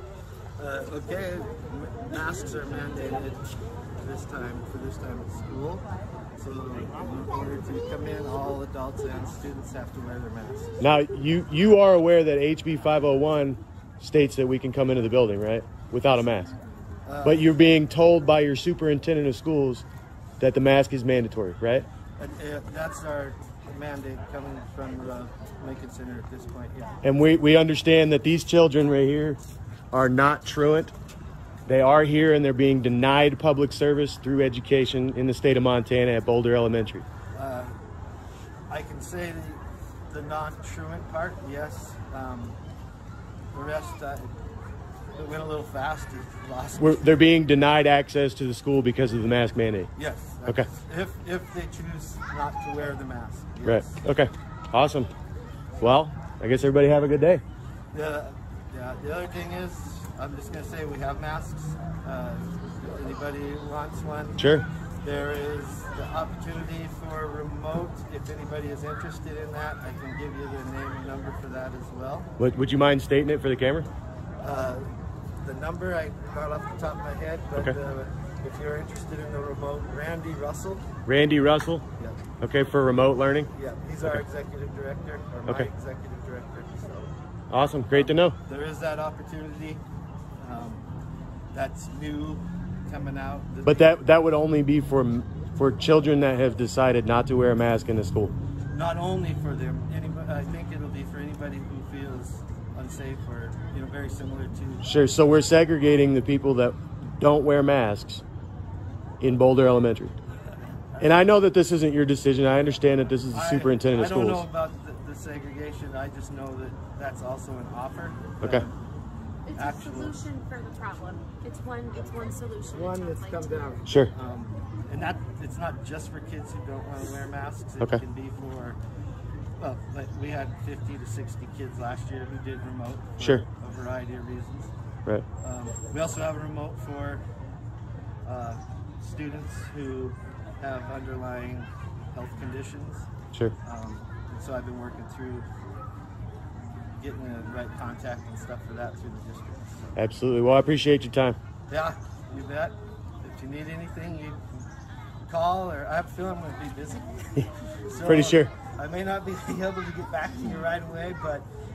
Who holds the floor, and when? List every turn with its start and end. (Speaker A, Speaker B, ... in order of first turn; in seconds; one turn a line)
Speaker A: 0.6-3.4
Speaker A: 4.0-5.8
Speaker A: 6.4-10.8
Speaker B: 10.8-16.5
Speaker A: 17.1-17.6
Speaker B: 17.2-19.8
Speaker B: 20.4-21.9
Speaker A: 22.2-27.0
Speaker B: 27.0-29.4
Speaker B: 29.9-30.9
Speaker B: 31.7-37.0
Speaker A: 37.3-37.8
Speaker A: 38.7-42.6
Speaker A: 43.5-44.3
Speaker A: 45.1-47.2
Speaker B: 46.8-49.9
Speaker A: 50.0-54.0
Speaker B: 53.6-55.1
Speaker B: 55.8-57.4
Speaker A: 57.9-64.5
Speaker B: 64.4-64.7
Speaker A: 65.0-72.3
Speaker B: 72.4-73.9
Speaker A: 74.4-80.9
Speaker B: 81.1-81.8
Speaker A: 82.0-82.2
Speaker B: 82.4-83.5
Speaker A: 83.5-87.1
Speaker B: 87.5-88.4
Speaker A: 87.9-89.8
Speaker A: 90.4-90.8
Speaker A: 91.5-93.9
Speaker B: 93.6-98.3
Speaker A: 98.7-104.9
Speaker B: 104.8-108.2
Speaker B: 109.2-110.2
Speaker B: 111.0-114.5
Speaker A: 113.3-118.7
Speaker B: 118.4-118.7
Speaker C: 119.5-123.5
Speaker A: 119.5-120.2
Speaker A: 122.7-128.8
Speaker A: 129.6-134.7
Speaker B: 133.2-133.4
Speaker A: 135.4-137.2
Speaker A: 138.2-143.1
Speaker A: 143.6-145.5
Speaker A: 147.0-150.0
Speaker B: 150.0-151.4
Speaker A: 151.7-154.4
Speaker A: 155.3-161.5
Speaker B: 158.0-158.5